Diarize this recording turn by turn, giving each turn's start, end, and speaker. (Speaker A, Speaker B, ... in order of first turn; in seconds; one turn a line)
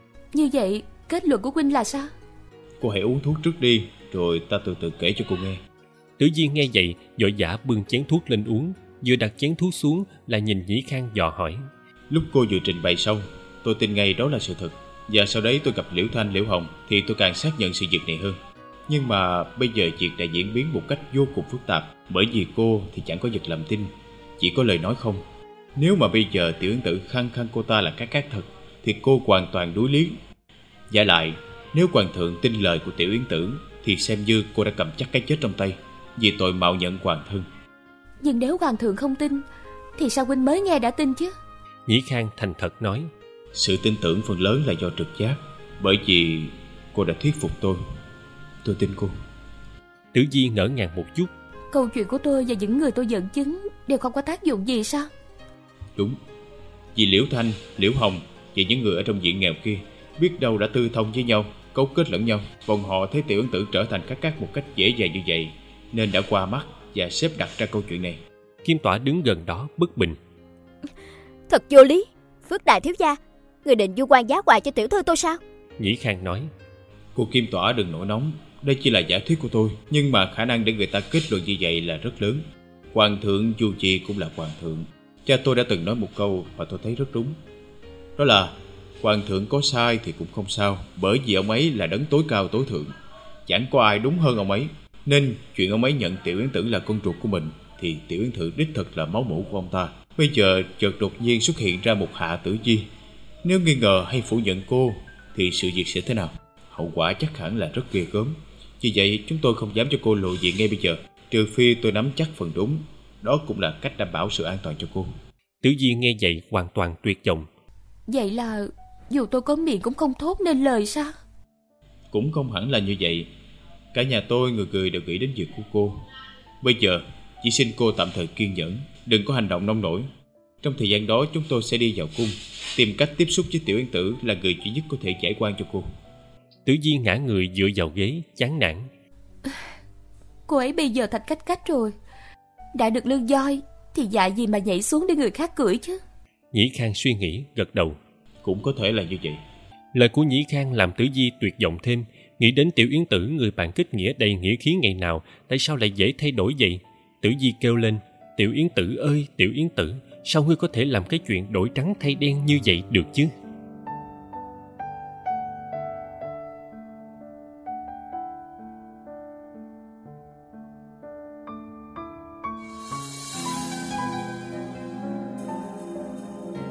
Speaker A: 0.3-2.1
Speaker B: 2.8-5.6
Speaker C: 6.2-11.6
Speaker B: 12.1-18.4
Speaker B: 18.9-25.2
Speaker B: 25.8-30.2
Speaker B: 30.9-37.5
Speaker A: 38.2-39.4
Speaker A: 40.0-41.3
Speaker C: 41.9-43.1
Speaker B: 43.5-47.8
Speaker B: 48.6-49.1
Speaker C: 50.1-51.3
Speaker A: 51.7-55.1
Speaker B: 57.0-68.2
Speaker C: 68.6-70.2
Speaker D: 71.5-75.4
Speaker C: 75.8-76.5
Speaker B: 77.1-87.4
Speaker B: 88.2-92.9
Speaker B: 93.5-102.9
Speaker B: 103.4-115.1
Speaker C: 115.6-117.5
Speaker A: 118.1-121.1
Speaker B: 122.1-123.3
Speaker B: 123.9-126.0
Speaker B: 126.6-130.1
Speaker B: 130.6-135.9
Speaker C: 136.7-138.9
Speaker A: 140.5-141.9
Speaker A: 142.7-146.0
Speaker C: 146.5-148.0
Speaker B: 148.4-149.4
Speaker C: 149.9-163.3